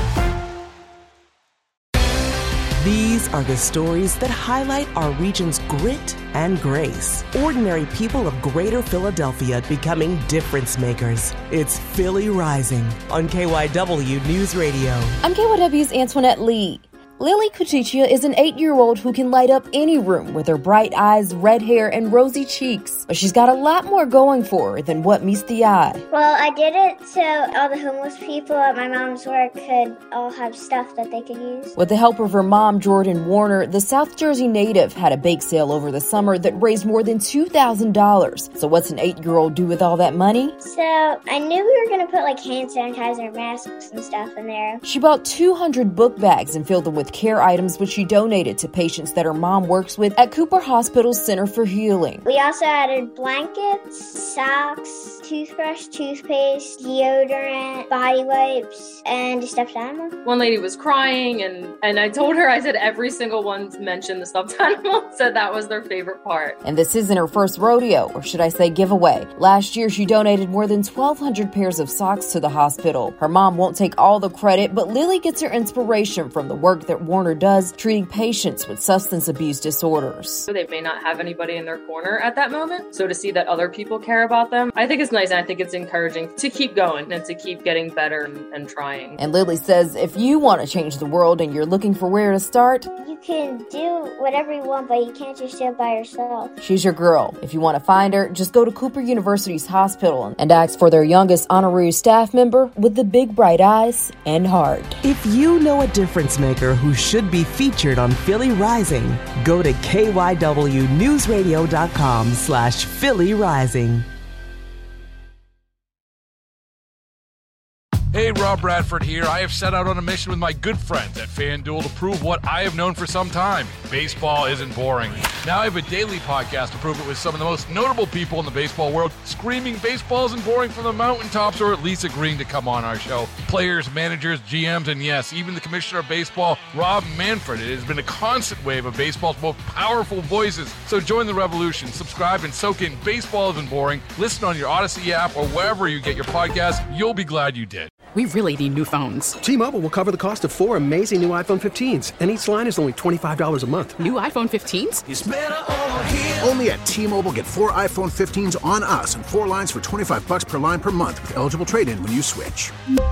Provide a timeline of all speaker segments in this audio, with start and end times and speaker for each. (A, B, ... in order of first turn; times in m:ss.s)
0:02.8-0:15.1 A
0:15.2-0:26.0 B
0:26.1-0:31.7 C
0:31.8-0:40.5 B
0:40.6-0:44.8 C
0:44.8-0:52.2 B
0:52.2-1:00.2 C
1:00.2-1:06.6 D
1:06.6-1:20.5 B
1:20.5-1:29.2 D
1:29.2-1:32.9 B
1:33.0-1:36.5 C
1:36.6-1:45.0 B
1:45.0-1:54.0 A
1:58.1-2:27.9 E
2:28.1-2:29.4 F
2:29.4-2:34.0 G
2:34.0-2:35.0 F
2:35.1-2:42.7 H